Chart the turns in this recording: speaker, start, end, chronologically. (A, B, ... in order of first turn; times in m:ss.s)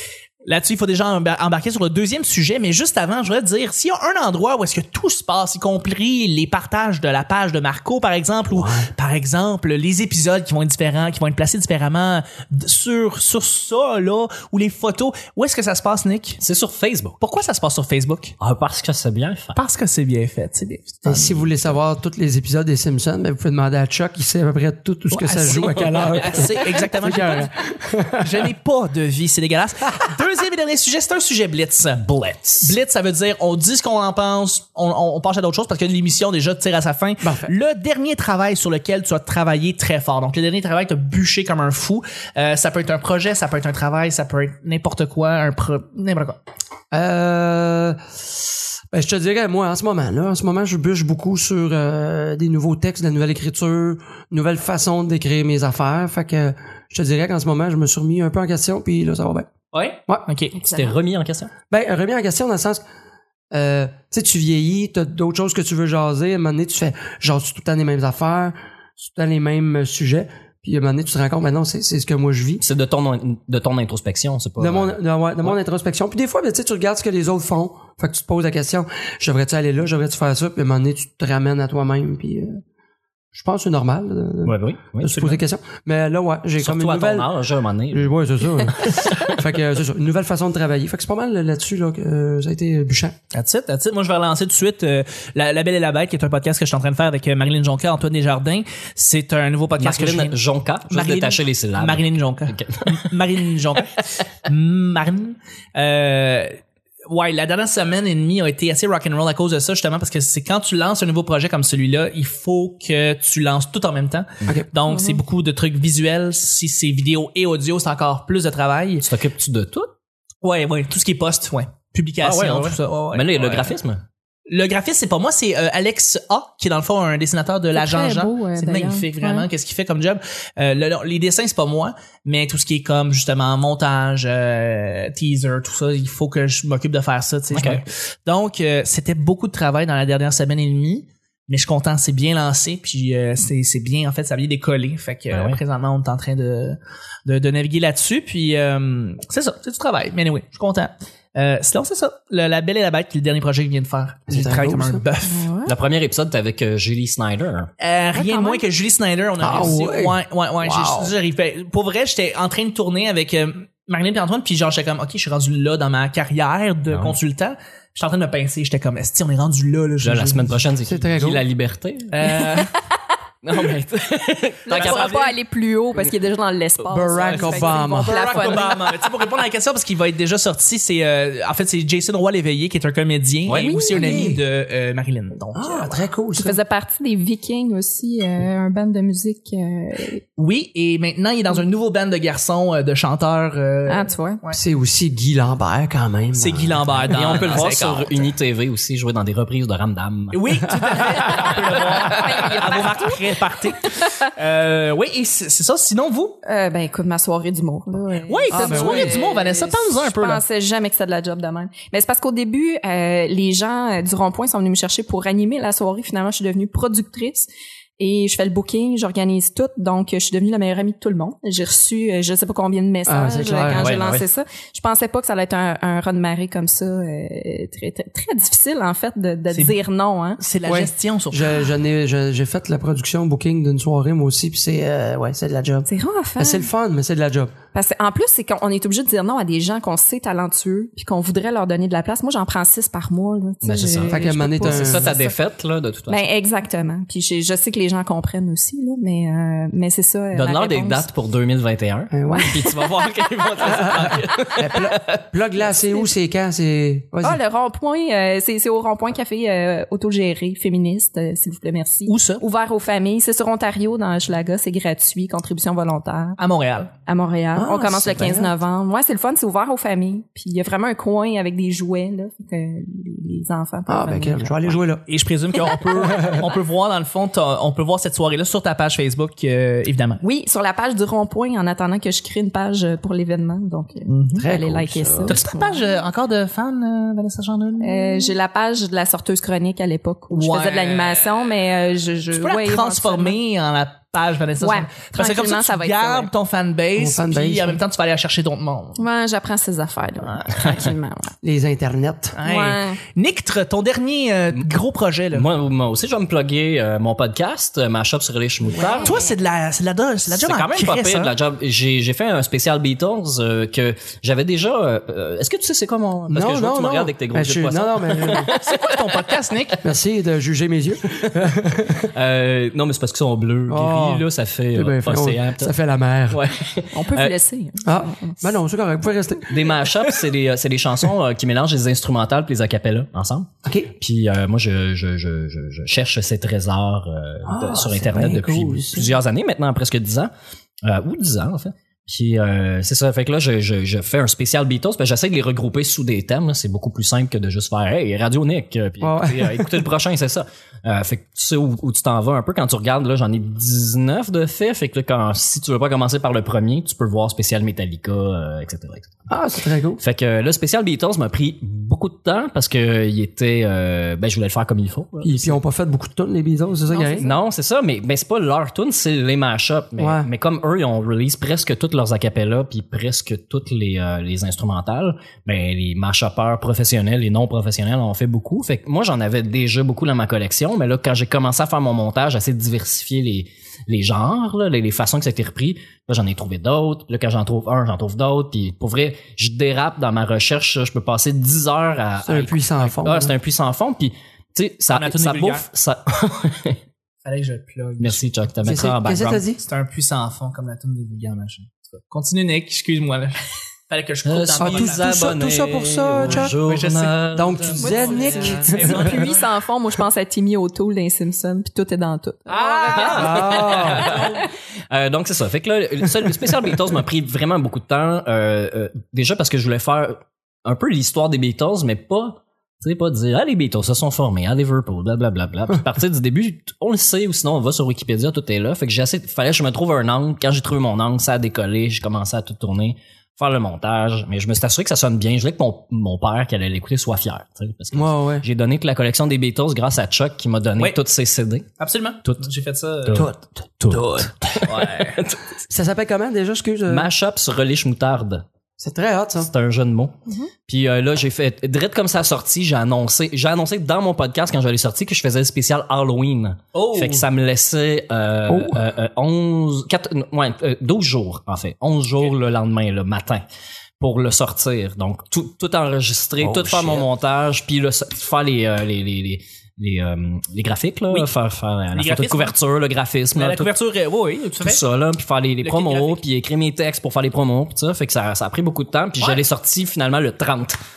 0:00.5-0:16.4 A
0:16.4-0:17.2 B
0:17.2-0:18.4 A
0:18.4-0:19.6 B
0:19.6-0:21.7 A
0:21.0-0:28.4 C
0:25.1-0:27.5 A
0:28.2-0:32.0 A
0:32.0-0:32.7 B
0:32.6-0:46.4 A
0:37.2-0:37.5 C
0:46.9-0:48.2 C
0:48.9-0:59.5 C
0:59.7-1:00.6 A
1:00.6-1:01.0 D
1:00.6-1:01.5 B
1:01.7-1:02.8 C
1:03.5-1:12.6 C
1:12.6-1:15.6 B
1:14.6-1:22.6 C
1:23.3-1:27.3 C
1:24.4-1:25.4 B
1:26.6-1:29.4 B
1:27.9-1:33.2 C
1:33.3-1:40.4 A
1:39.8-1:43.1 B
1:40.9-1:59.1 A
1:54.9-1:55.2 D
1:59.0-1:59.9 B
2:00.4-2:03.8 A
2:02.2-2:04.0 B
2:04.5-2:35.5 A
2:07.8-2:09.5 D
2:17.5-2:17.8 B
2:25.3-2:25.6 B
2:34.3-2:35.0 C
2:35.2-2:35.8 D
2:35.6-2:37.7 B
2:37.8-2:50.6 A
2:38.1-2:38.6 D
2:39.4-2:41.1 C
2:46.9-2:47.2 B
2:50.0-2:52.1 B
2:50.8-2:51.4 C
2:52.1-2:52.8 A
2:52.3-2:52.8 D
2:53.4-2:55.2 B
2:54.7-2:55.3 A
2:54.7-2:59.0 D
2:56.9-2:58.5 C
2:57.2-3:06.0 A
3:03.5-3:03.8 B
3:03.6-3:04.4 D
3:03.8-3:04.4 C
3:05.6-3:06.6 C
3:06.4-3:10.2 D
3:10.4-3:14.6 A
3:13.9-3:14.4 D
3:14.5-3:17.4 C
3:16.4-3:18.3 A
3:17.1-3:20.7 B
3:20.3-3:26.4 A
3:20.7-3:21.2 C
3:21.5-3:23.3 D
3:23.8-3:24.2 D
3:26.4-3:50.4 D
3:28.3-3:30.4 A
3:28.5-3:29.2 C
3:43.1-3:43.9 C
3:43.7-3:44.2 B
3:50.4-3:51.5 A
3:50.7-3:55.9 C
3:55.9-3:56.7 D
3:56.4-3:57.6 C
3:57.7-4:05.4 D
4:03.6-4:06.2 B
4:04.1-4:05.1 C
4:06.1-4:11.1 D
4:10.3-4:15.1 B
4:12.1-4:12.6 C
4:12.3-4:12.8 D
4:13.6-4:17.4 C
4:17.2-4:26.4 D
4:22.1-4:22.4 A
4:26.4-4:26.9 A
4:27.1-4:34.6 D
4:27.6-4:28.6 C
4:33.9-4:35.0 C
4:35.1-4:40.2 A
4:40.2-4:46.0 D
4:44.1-4:44.5 A
4:44.4-4:45.4 C
4:45.3-4:48.4 A
4:47.8-4:53.4 D
4:50.3-4:51.4 A
4:52.3-4:59.0 A
4:54.6-4:56.3 D
4:57.0-4:57.8 C
4:59.0-5:01.4 D
5:00.2-5:00.8 A
5:01.4-5:02.4 C
5:02.4-5:05.5 A
5:02.4-5:03.0 D
5:05.3-5:09.2 B
5:08.7-5:09.3 D
5:09.0-5:11.3 A
5:10.3-5:19.1 B
5:16.3-5:18.5 C
5:18.5-5:19.8 A
5:19.8-5:22.1 C
5:22.0-5:25.7 B
5:23.7-5:26.5 C
5:26.3-5:27.4 B
5:26.9-5:28.5 D
5:27.8-5:30.2 C
5:29.5-5:40.3 B
5:33.6-5:33.9 C
5:37.5-5:39.1 C
5:40.8-5:59.2 B
5:49.0-5:49.9 C
5:59.3-6:00.0 C
6:00.0-6:05.6 B
6:05.2-6:07.3 C
6:06.9-6:07.4 D
6:07.2-6:36.8 B
6:10.0-6:10.3 C
6:32.2-6:33.3 C
6:34.9-6:35.6 A
6:37.2-6:38.2 A
6:38.0-6:39.4 B
6:38.6-6:39.6 C
6:39.6-6:43.4 A
6:43.9-6:45.4 A
6:44.2-6:49.0 B
6:44.6-6:46.6 C
6:46.3-6:47.2 A
6:47.3-6:49.2 C
6:47.8-6:54.2 D
6:48.7-6:49.5 A
6:52.5-7:21.7 B
6:52.9-6:54.4 A
6:53.0-6:54.2 C
7:17.9-7:18.5 C
7:21.8-7:23.3 A
7:23.1-7:25.5 B
7:23.1-7:24.7 C
7:24.6-7:25.2 A
7:25.7-7:27.1 C
7:26.9-7:28.4 B
7:28.8-7:29.5 C
7:29.4-7:43.4 B
7:36.7-7:37.3 A
7:38.5-7:38.8 C
7:44.0-7:53.7 B
7:46.4-7:47.1 C
7:51.9-7:52.5 A
7:53.4-7:54.8 A
7:54.6-8:00.8 B
7:55.6-7:56.2 A